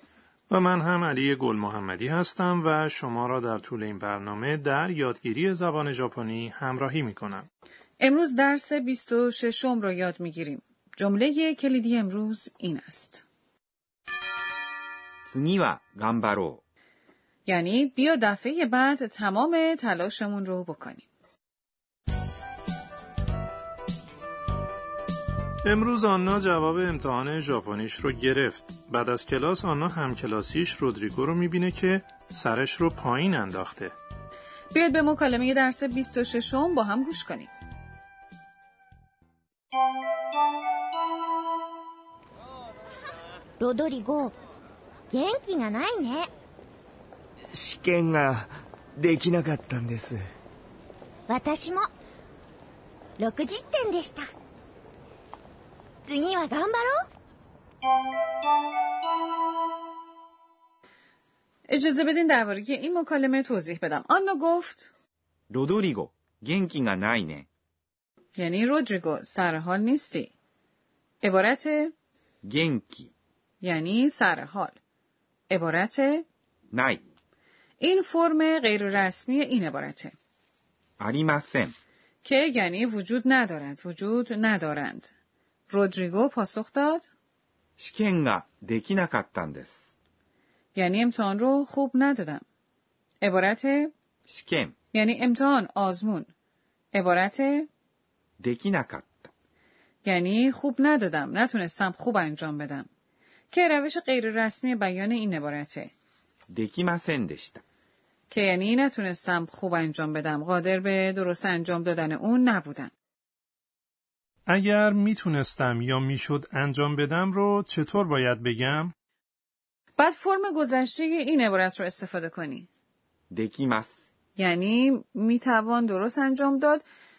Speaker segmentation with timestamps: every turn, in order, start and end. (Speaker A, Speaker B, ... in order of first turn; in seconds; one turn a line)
Speaker A: 0.5-7.5
Speaker B: 8.0-13.2
Speaker C: 15.2-16.6
Speaker B: 17.4-21.1
Speaker A: 25.6-33.9
Speaker B: 34.7-37.5
Speaker D: 43.6-44.3
Speaker D: 45.1-46.3
Speaker E: 47.5-50.2
Speaker D: 51.3-51.9
Speaker D: 53.2-54.3
Speaker D: 56.0-57.0
Speaker B: 61.7-64.9
Speaker C: 65.5-67.5
Speaker B: 68.4-70.3
Speaker B: 71.2-71.9
Speaker C: 72.4-73.1
Speaker B: 73.6-74.8
Speaker B: 75.5-76.2
Speaker C: 76.7-77.0
Speaker B: 77.8-80.1
Speaker C: 81.0-81.7
Speaker B: 82.2-85.1
Speaker B: 85.7-87.1
Speaker C: 87.8-89.9
Speaker B: 90.7-92.4
Speaker B: 93.2-93.9
Speaker C: 94.3-94.7
Speaker B: 94.9-96.3
Speaker B: 96.9-97.7
Speaker C: 98.4-99.3
Speaker B: 100.0-102.9
Speaker B: 103.5-105.9
Speaker C: 106.5-107.6
Speaker B: 108.3-112.9
Speaker A: 114.5-118.9
Speaker B: 120.0-122.7
Speaker C: 123.3-124.0
Speaker B: 124.4-126.8